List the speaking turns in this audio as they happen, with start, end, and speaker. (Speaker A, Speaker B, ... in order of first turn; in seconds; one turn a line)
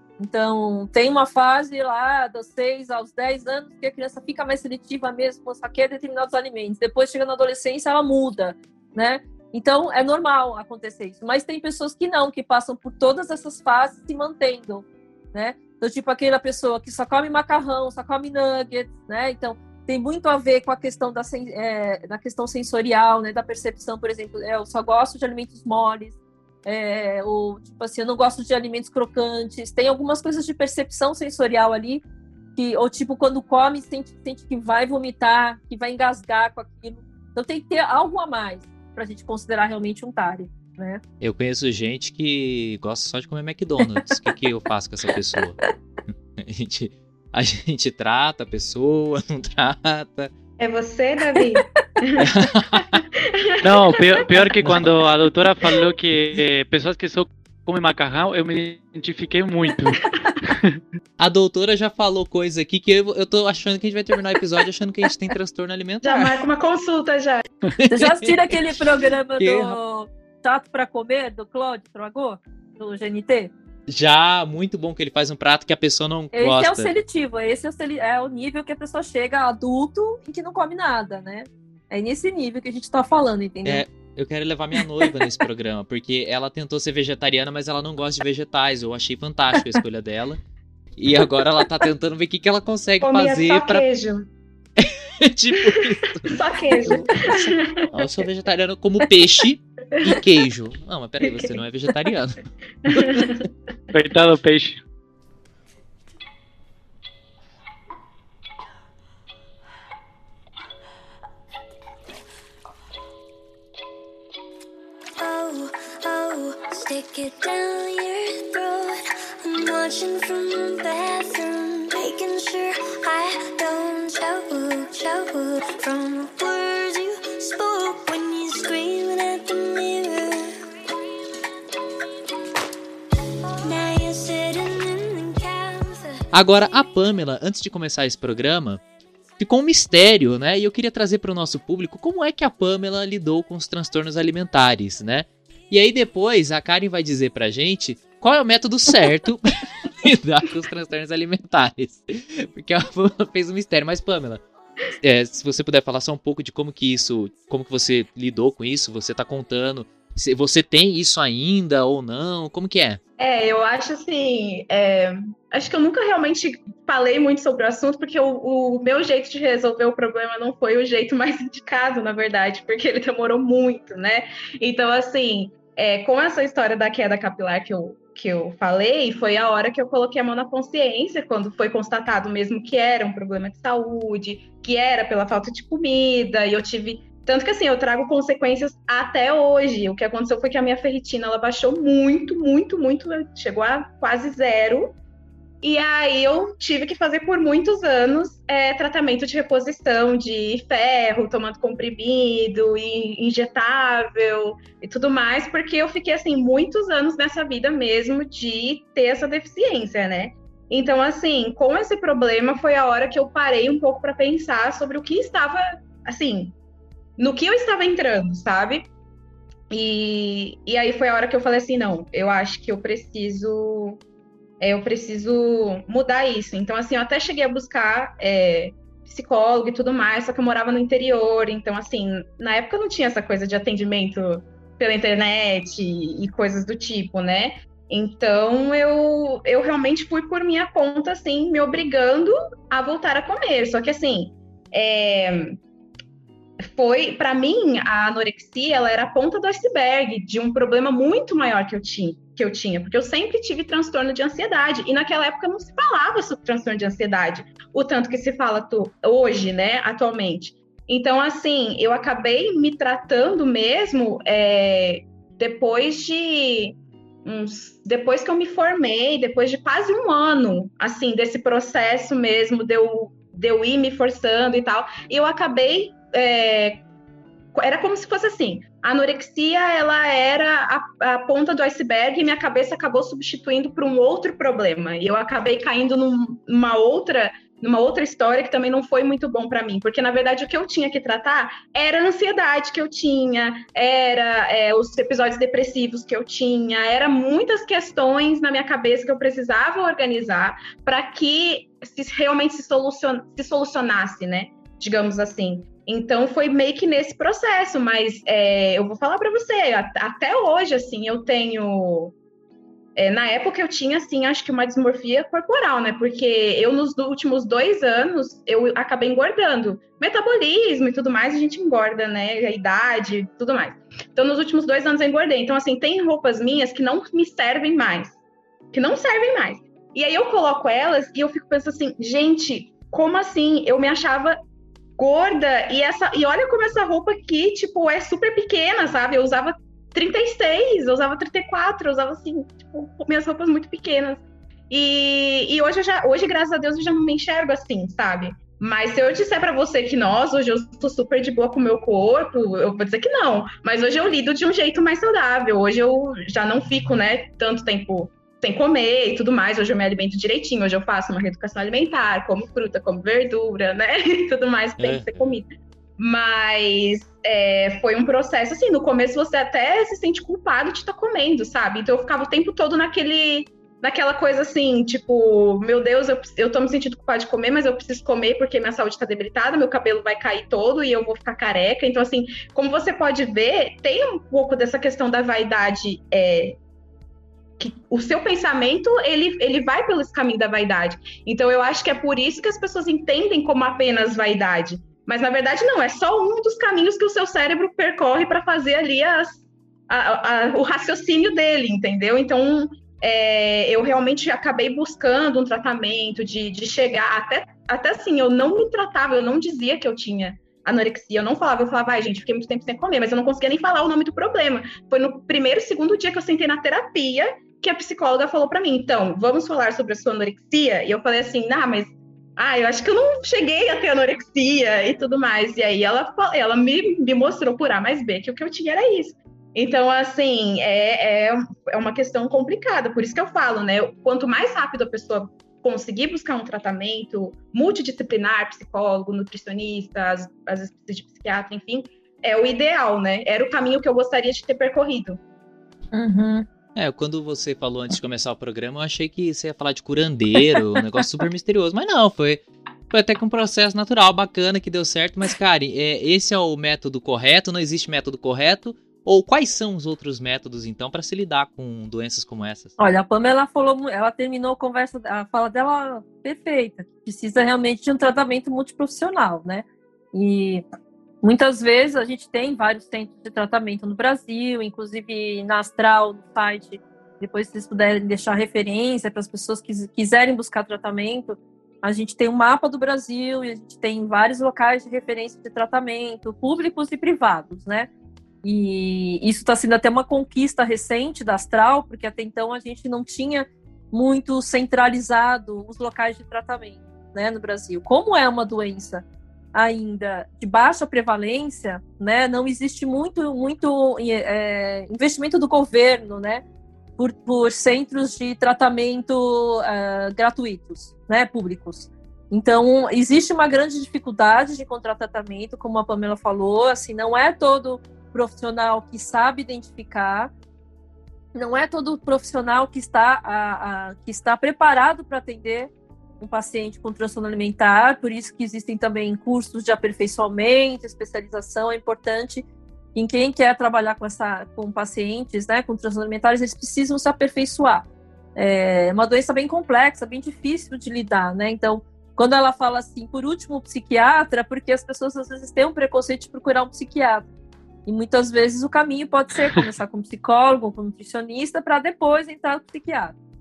Speaker A: 0.2-32.0
Speaker A: 32.5-41.0
Speaker B: 41.2-45.6
Speaker B: 46.4-50.3
Speaker C: 50.6-54.9
Speaker B: 52.2-53.0
Speaker D: 53.6-60.7
Speaker B: 61.2-66.4
Speaker C: 66.0-67.4
Speaker B: 67.8-68.3
Speaker A: 67.9-73.5
Speaker B: 69.4-69.8
Speaker B: 73.9-76.9
Speaker A: 76.3-83.8
Speaker B: 83.6-90.4
Speaker B: 91.0-93.8
Speaker C: 93.0-94.3
Speaker B: 94.8-103.3
Speaker C: 95.7-98.2
Speaker C: 100.0-100.2
Speaker C: 101.3-101.5
Speaker C: 102.8-103.4
Speaker D: 103.9-104.8
Speaker E: 115.2-130.7
Speaker E: 133.6-136.2
Speaker B: 136.3-138.8
Speaker B: 139.4-154.4
Speaker B: 155.0-163.0
Speaker C: 163.2-195.0
Speaker C: 195.6-216.5
Speaker C: 217.2-218.9
Speaker C: 219.7-224.0
Speaker C: 224.6-245.6
Speaker C: 246.6-276.8
Speaker C: 277.5-312.1
Speaker C: 312.9-328.2
Speaker C: 328.7-334.4
Speaker C: 335.0-365.5
Speaker B: 364.8-365.1
Speaker C: 366.0-386.6
Speaker C: 387.6-445.2
Speaker A: 445.9-446.4
Speaker B: 446.7-462.7
Speaker A: 462.8-470.6
Speaker A: 471.2-487.9
Speaker A: 488.4-506.4
Speaker A: 507.0-520.3
Speaker A: 521.3-537.8
Speaker A: 538.4-547.3
Speaker A: 547.9-553.1